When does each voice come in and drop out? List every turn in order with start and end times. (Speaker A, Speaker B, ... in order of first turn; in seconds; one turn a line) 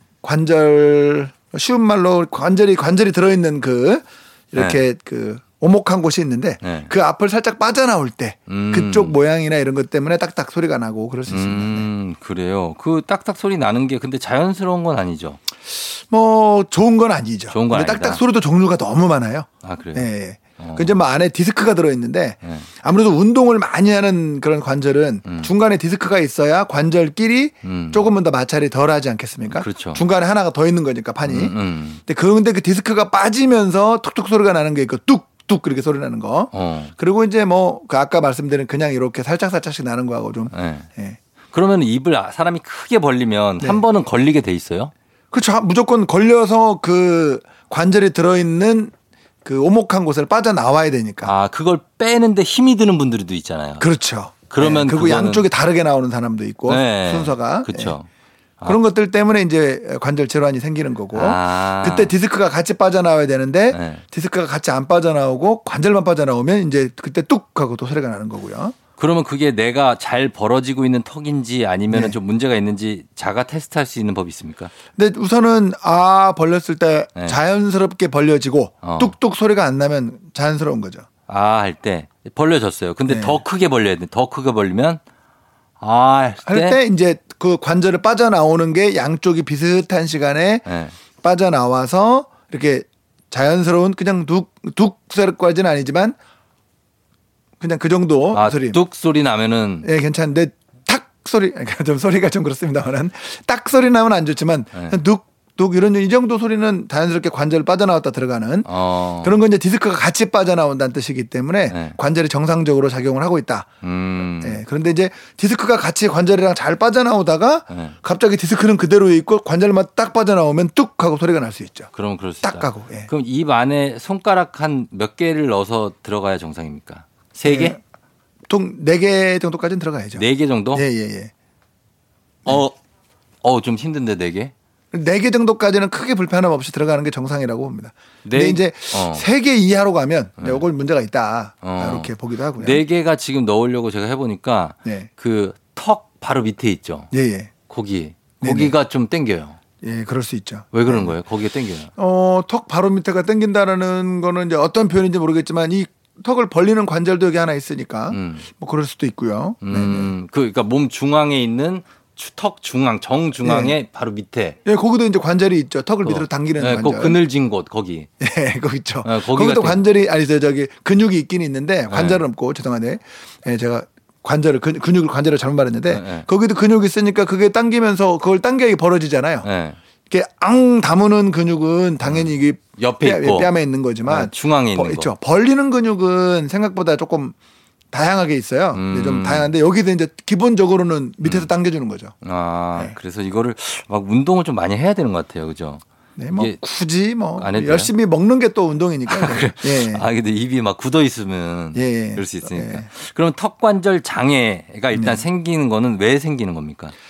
Speaker A: 0.2-11.9
Speaker B: 4.6-4.8
Speaker B: 6.6-6.9
Speaker B: 8.5-9.2
Speaker B: 11.3-15.4
Speaker A: 15.7-31.6
Speaker B: 17.5-18.2
Speaker B: 19.6-21.0
Speaker B: 25.2-25.5
Speaker B: 27.6-28.1
Speaker B: 29.5-30.0
Speaker B: 31.2-32.0
Speaker A: 32.1-41.2
Speaker B: 36.5-36.9
Speaker B: 40.5-40.9
Speaker B: 41.5-44.9
Speaker A: 45.3-48.9
Speaker A: 49.5-51.3
Speaker B: 51.2-53.9
Speaker A: 53.8-58.0
Speaker B: 54.5-55.5
Speaker B: 56.7-58.1
Speaker A: 58.7-68.8
Speaker B: 61.1-62.1
Speaker B: 63.7-64.0
Speaker B: 69.0-74.7
Speaker A: 71.9-72.2
Speaker A: 75.0-81.1
Speaker B: 78.8-79.1
Speaker B: 81.3-85.0
Speaker A: 83.1-83.4
Speaker B: 85.8-86.8
Speaker A: 86.5-90.7
Speaker B: 90.7-91.0
Speaker A: 91.2-96.2
Speaker A: 97.6-98.8
Speaker B: 98.3-99.9
Speaker A: 99.8-108.7
Speaker B: 108.7-109.4
Speaker A: 109.2-113.7
Speaker B: 111.7-112.0
Speaker B: 113.8-114.6
Speaker A: 114.4-121.9
Speaker B: 121.9-127.8
Speaker A: 122.4-123.1
Speaker A: 127.5-127.8
Speaker A: 128.5-131.3
Speaker B: 130.2-130.8
Speaker B: 132.5-132.8
Speaker B: 133.4-134.5
Speaker A: 134.9-142.8
Speaker B: 138.2-139.3
Speaker B: 140.4-140.6
Speaker B: 141.6-147.1
Speaker A: 147.1-147.5
Speaker B: 147.7-149.6
Speaker A: 148.4-148.8
Speaker A: 149.8-151.1
Speaker B: 150.7-151.9
Speaker A: 152.0-160.1
Speaker B: 158.1-158.5
Speaker B: 159.6-164.6
Speaker A: 163.4-163.8
Speaker A: 164.7-167.2
Speaker B: 166.1-168.1
Speaker A: 168.2-179.5
Speaker B: 169.0-169.8
Speaker B: 171.9-172.2
Speaker B: 175.9-176.3
Speaker B: 179.4-179.8
Speaker A: 180.1-187.3
Speaker B: 182.1-183.5
Speaker B: 184.1-185.1
Speaker A: 187.9-192.2
Speaker B: 188.7-189.5
Speaker B: 191.2-191.5
Speaker B: 192.2-195.8
Speaker A: 196.2-200.1
Speaker B: 196.3-196.6
Speaker B: 197.4-197.9
Speaker B: 199.1-206.9
Speaker A: 201.8-202.9
Speaker A: 204.9-205.3